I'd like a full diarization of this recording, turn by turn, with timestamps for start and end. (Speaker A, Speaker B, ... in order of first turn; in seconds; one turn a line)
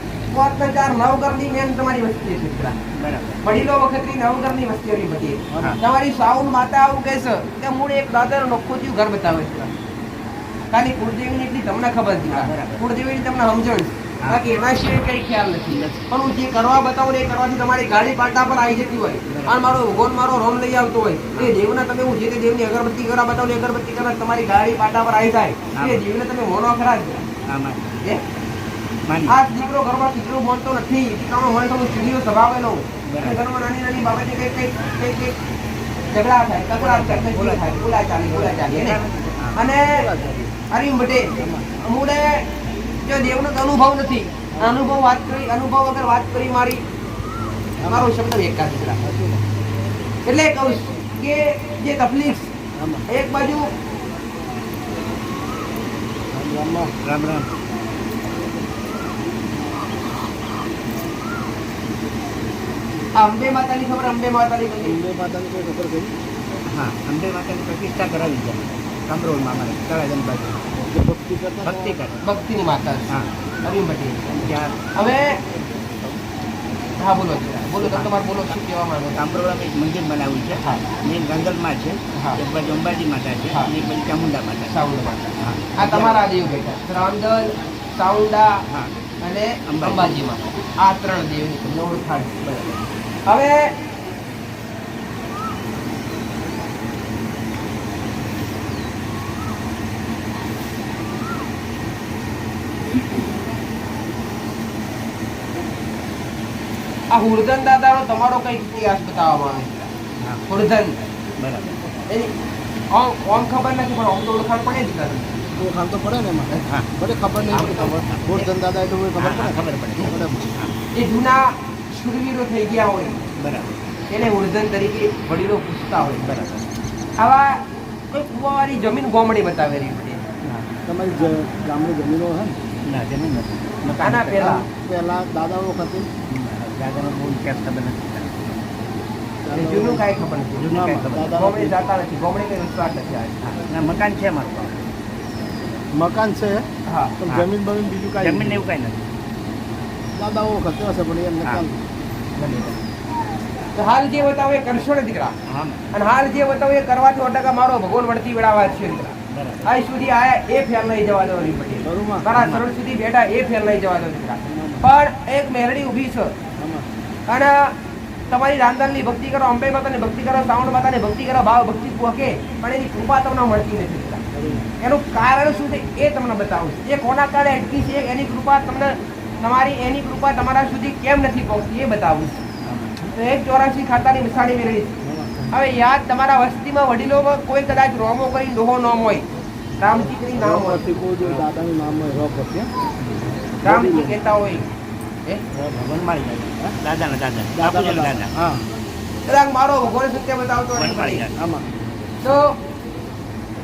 Speaker A: 0.3-2.8
Speaker B: 3.0-3.4
Speaker A: 3.4-9.7
Speaker A: 10.7-27.3
Speaker B: 12.3-12.8
Speaker B: 15.7-16.1
Speaker B: 19.3-19.8
Speaker B: 25.7-26.0
Speaker B: 27.5-28.0
Speaker B: 29.1-29.4
Speaker A: 29.3-35.4
Speaker B: 33.1-33.4
Speaker A: 36.1-39.0
Speaker B: 36.7-37.7
Speaker B: 38.3-39.6
Speaker A: 39.5-40.1
Speaker C: 39.8-40.5
Speaker A: 40.7-42.5
Speaker C: 41.4-41.7
Speaker A: 43.0-46.8
Speaker C: 47.8-48.1
Speaker A: 47.8-49.0
Speaker C: 49.0-49.4
Speaker A: 50.3-52.5
Speaker C: 52.8-53.0
Speaker A: 53.1-53.7
Speaker C: 56.3-56.9
Speaker B: 57.0-57.5
Speaker A: 63.1-65.0
Speaker C: 64.8-66.1
Speaker B: 66.7-70.8
Speaker C: 70.8-72.0
Speaker B: 71.6-72.2
Speaker A: 72.2-73.1
Speaker A: 73.6-74.4
Speaker B: 74.3-74.8
Speaker A: 75.0-75.4
Speaker A: 77.0-79.2
Speaker B: 77.5-78.1
Speaker B: 79.2-84.7
Speaker A: 82.1-82.4
Speaker A: 84.7-88.6
Speaker B: 85.4-86.4
Speaker A: 89.2-92.8
Speaker B: 89.7-90.1
Speaker A: 93.3-93.8
Speaker A: 107.1-109.9
Speaker A: 110.5-111.0
Speaker B: 111.4-111.7
Speaker A: 112.9-115.4
Speaker C: 115.6-120.5
Speaker A: 117.5-117.9
Speaker B: 117.5-118.5
Speaker B: 119.2-120.7
Speaker A: 120.9-123.2
Speaker B: 123.4-123.8
Speaker A: 124.1-126.3
Speaker B: 126.2-126.7
Speaker A: 127.2-130.2
Speaker B: 130.4-130.7
Speaker C: 130.9-132.6
Speaker B: 132.9-134.6
Speaker A: 134.0-134.7
Speaker C: 134.6-136.1
Speaker B: 136.3-138.6
Speaker C: 139.4-140.0
Speaker A: 139.5-140.7
Speaker B: 140.6-141.4
Speaker C: 140.6-141.8
Speaker A: 141.3-143.4
Speaker B: 143.4-144.8
Speaker C: 145.9-146.7
Speaker A: 146.9-147.2
Speaker C: 147.2-148.6
Speaker B: 148.2-149.1
Speaker C: 150.1-151.8
Speaker A: 152.4-152.8
Speaker A: 153.7-155.4
Speaker B: 155.5-155.8
Speaker A: 155.9-166.3
Speaker B: 159.3-159.7
Speaker C: 161.9-162.3
Speaker B: 162.3-162.6
Speaker C: 164.5-164.8
Speaker C: 166.6-166.9
Speaker A: 167.3-167.8
Speaker A: 168.3-174.2
Speaker C: 174.4-174.6
Speaker B: 174.4-174.7
Speaker A: 174.8-182.4
Speaker B: 182.6-183.0
Speaker A: 183.1-184.9
Speaker C: 185.1-185.5
Speaker A: 185.5-189.3
Speaker A: 189.8-190.9
Speaker C: 190.3-192.7
Speaker C: 193.6-194.2
Speaker A: 193.6-194.7
Speaker C: 195.6-196.0
Speaker B: 195.8-198.4
Speaker C: 197.5-198.6
Speaker A: 199.3-201.3
Speaker B: 200.8-201.4
Speaker C: 201.4-201.7
Speaker A: 202.2-202.6